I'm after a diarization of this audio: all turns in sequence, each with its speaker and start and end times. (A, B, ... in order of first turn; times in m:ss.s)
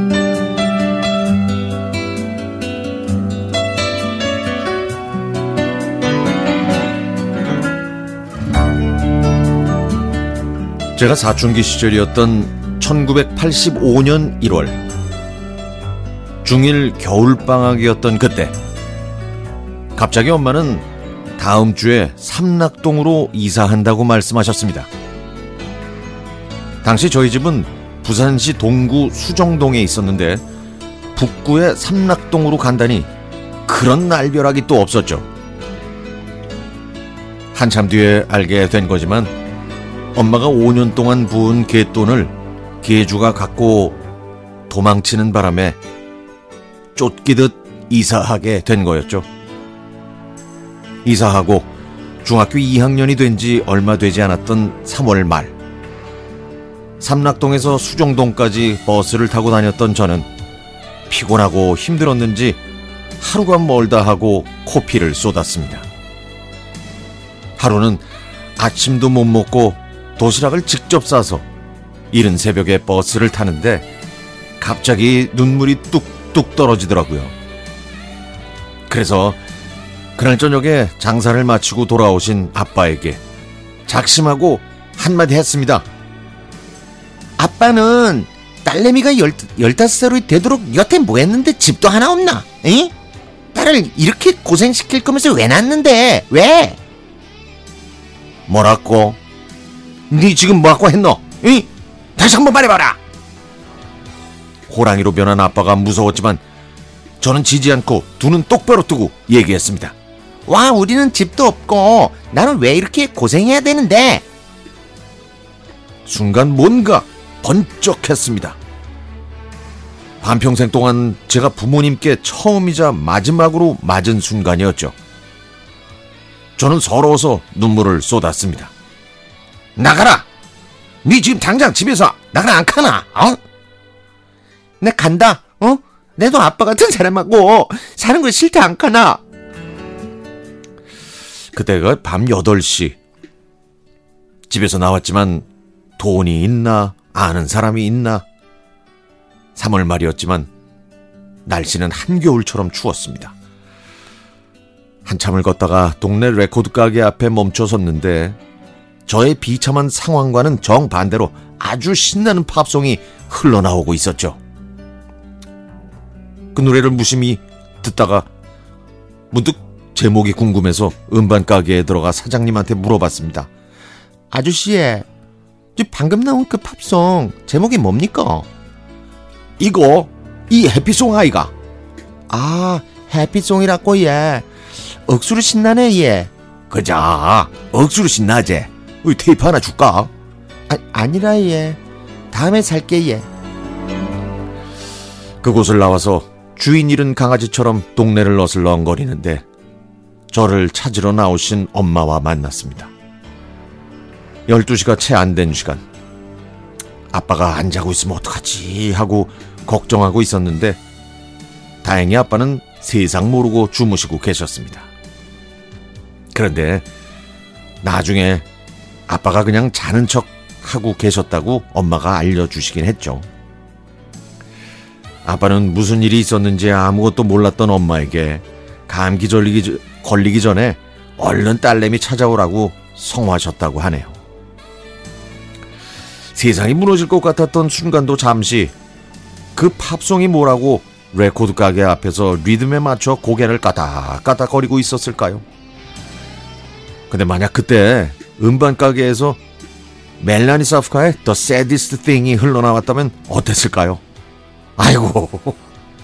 0:11.0-0:14.8 A
0:16.4-0:18.6 A
0:20.0-0:20.9 A
0:21.4-0:24.9 A
0:26.8-0:30.4 A
0:31.2-0:33.1 A
0:33.7-0:35.3 A
0:37.5-0:39.3 A
0:40.2-0:44.0 A
0:44.7-0:45.8 A
0:47.0-0:49.3 A
0:51.0-0:51.7 A
0:52.2-0:55.6 A
0:57.0-1:00.3 A
1:01.1-1:02.6 A
1:03.2-1:05.9 A
1:07.6-1:08.0 A
1:08.6-1:11.4 A
1:12.1-1:13.9 A
1:14.6-1:17.3 A
1:18.9-1:19.4 A
1:20.2-1:23.2 A
1:23.9-1:25.9 A
1:27.4-1:32.9 B
1:33.5-1:36.8 B
1:38.5-1:39.2 A
1:40.1-1:43.0 A
1:44.7-1:46.4 A
1:47.2-1:50.0 A
1:50.5-1:54.2 B
1:56.1-1:58.6 A
2:00.2-2:04.9 A
2:06.6-2:08.7 A
2:09.8-2:10.3 A
2:11.0-2:13.4 A
2:14.8-2:19.2 B
2:21.5-2:23.0 A
2:24.5-2:25.5 A
2:26.0-2:28.2 A
2:29.6-2:30.5 A
2:31.4-2:33.4 A
2:35.0-2:38.4 A
2:39.1-2:44.4 A
2:46.5-2:48.3 A
2:49.3-2:53.5 A
2:54.3-2:55.0 B
2:54.3-2:55.0 A
2:55.8-2:57.6 A
2:55.9-2:58.4 B
2:59.6-3:01.5 A
3:02.3-3:03.2 A
3:03.1-3:04.4 B
3:03.7-3:05.2 A
3:05.1-3:06.3 B
3:06.7-3:10.1 A
3:10.7-3:11.8 A
3:11.2-3:11.8 B
3:12.3-3:13.3 B
3:15.4-3:19.4 A
3:20.3-3:22.9 A
3:24.5-3:25.8 A
3:27.1-3:30.8 A
3:31.8-3:34.9 A
3:36.3-3:36.9 A
3:37.8-3:38.5 A
3:39.1-3:43.3 A
3:45.2-3:54.2 A
3:56.3-3:58.7 A
3:59.6-4:05.4 A
4:07.1-4:09.4 A
4:10.2-4:14.0 A
4:14.8-4:15.6 A